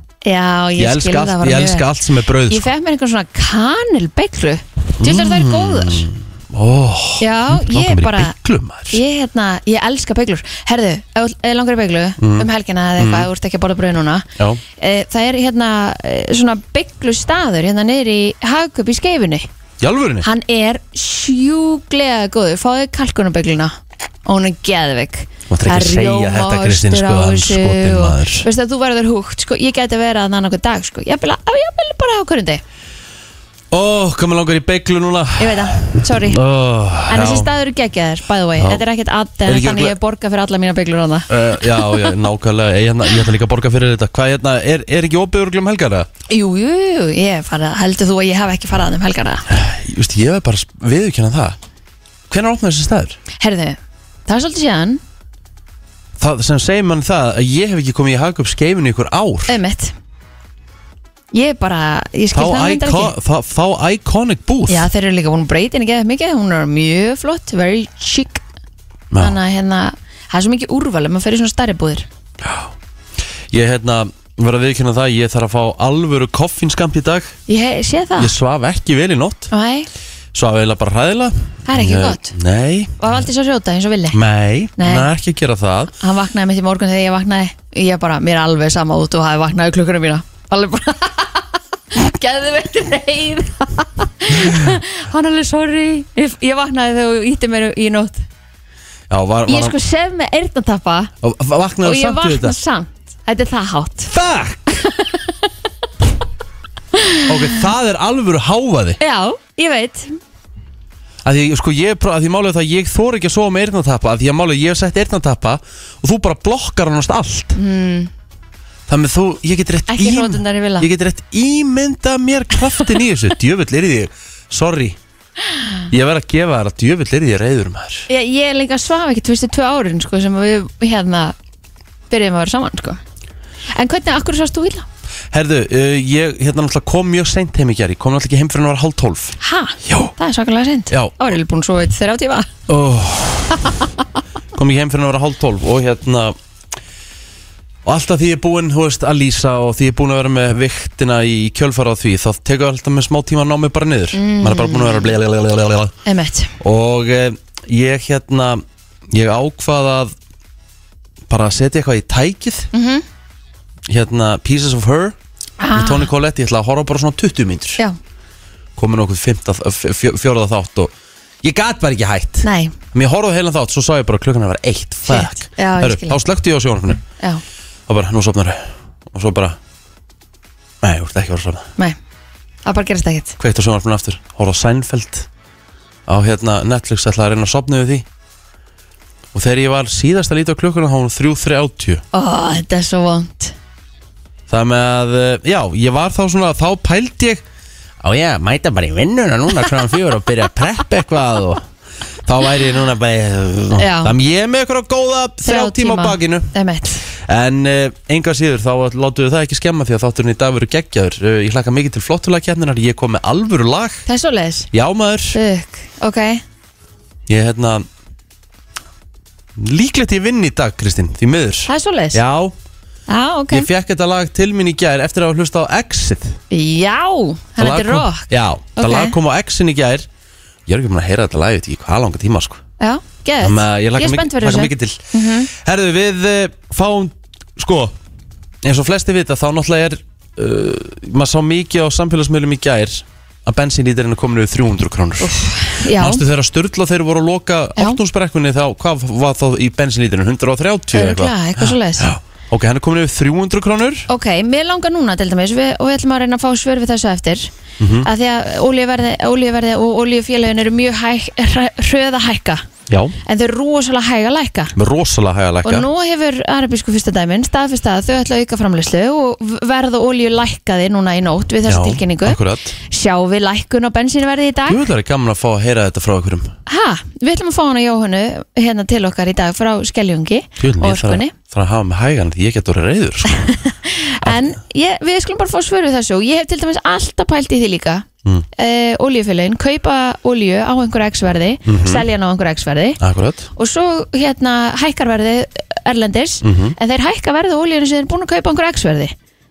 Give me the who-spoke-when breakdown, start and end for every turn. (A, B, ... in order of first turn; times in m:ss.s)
0:00.2-0:01.9 A
0:00.8-0:02.7 B
0:02.5-0:06.1 A
0:05.0-0:09.0 B
0:07.2-0:08.4 A
0:08.9-0:14.3 A
0:12.2-0:13.3 B
0:14.8-0:19.5 A
0:19.8-0:20.3 B
0:20.2-0:32.6 A
0:25.5-0:28.5 B
0:33.7-0:37.5 B
0:35.4-0:36.4 A
0:37.1-0:42.2 A
0:38.6-0:38.8 B
0:39.5-0:39.9 B
0:41.3-0:46.1 B
0:46.3-0:49.4 A
0:49.5-0:51.6 B
0:52.3-0:53.2 B
0:53.4-0:55.0 A
0:56.2-0:59.6 B
0:59.5-1:00.0 A
1:01.3-1:03.1 A
1:02.3-1:04.9 B
1:04.7-1:08.4 A
1:09.1-1:09.4 B
1:09.2-1:12.1 A
1:12.4-1:12.7 B
1:13.5-1:17.4 B
1:17.5-1:18.3 A
1:18.2-1:19.5 B
1:19.5-1:19.9 A
1:20.3-1:23.1 B
1:21.7-1:22.3 A
1:23.0-1:24.2 A
1:24.1-1:25.9 B
1:24.8-1:25.1 A
1:26.0-1:38.2 A
1:39.1-1:39.8 B
1:39.5-1:41.1 A
1:41.2-1:42.6 B
1:41.8-1:44.1 A
1:44.1-1:44.8 B
1:44.8-1:45.2 A
1:47.0-1:47.6 A
1:47.3-1:49.0 B
1:49.0-1:50.2 A
1:51.2-1:57.6 B
1:57.6-1:58.1 A
1:58.9-2:05.0 B
1:59.9-2:00.9 A
2:05.9-2:08.1 B
2:08.1-2:11.4 A
2:12.1-2:13.0 A
2:13.7-2:14.9 A
2:15.3-2:20.1 B
2:19.4-2:22.5 A
2:20.9-2:21.3 B
2:22.7-2:23.7 B
2:24.6-2:26.4 B
2:27.8-2:35.9 B
2:34.1-2:35.2 A
2:36.1-2:36.6 A
2:36.6-2:40.2 B
2:41.3-2:42.7 B
2:42.7-2:43.0 A
2:43.9-2:45.2 B
2:45.6-2:46.1 A
2:45.7-2:47.8 B
2:48.8-2:50.9 B
2:51.4-2:57.0 B
2:52.4-2:52.8 A
2:55.1-2:56.2 A
2:57.9-2:59.6 B
3:00.8-3:01.7 B
3:02.6-3:03.4 A
3:03.4-3:05.3 B
3:06.1-3:08.1 B
3:09.3-3:12.0 B
3:12.1-3:13.6 A
3:14.5-3:17.4 B
3:18.0-3:21.7 B
3:22.2-3:26.5 B
3:23.8-3:24.2 A
3:25.4-3:27.0 A
3:27.3-3:34.0 B
3:34.1-3:34.7 A
3:34.7-3:35.4 B
3:35.3-3:36.4 A
3:37.3-3:37.9 B
3:39.6-3:42.6 B
3:41.7-3:42.2 A
3:43.1-3:43.7 A
3:43.5-3:46.4 B
3:46.5-3:49.2 A
3:47.6-3:50.1 B
3:50.7-3:52.6 B
3:52.8-3:55.5 A
3:53.4-3:58.0 B
3:58.6-4:05.3 B
4:05.2-4:06.2 A
4:05.9-4:14.1 B
4:10.9-4:12.1 A
4:14.1-4:22.7 A
4:17.8-4:18.1 B
4:22.9-4:23.2 B
4:23.3-4:24.7 A
4:24.8-4:25.9 B
4:25.6-4:34.8 A
4:31.7-4:32.8 B
4:34.7-4:36.6 B
4:36.7-4:41.3 A
4:40.6-4:43.5 B
4:43.3-4:48.1 A
4:44.2-4:44.6 B
4:48.6-4:53.0 A
4:51.7-4:52.1 B
4:53.0-4:53.5 B
4:53.6-4:59.1 A
4:56.4-4:56.8 B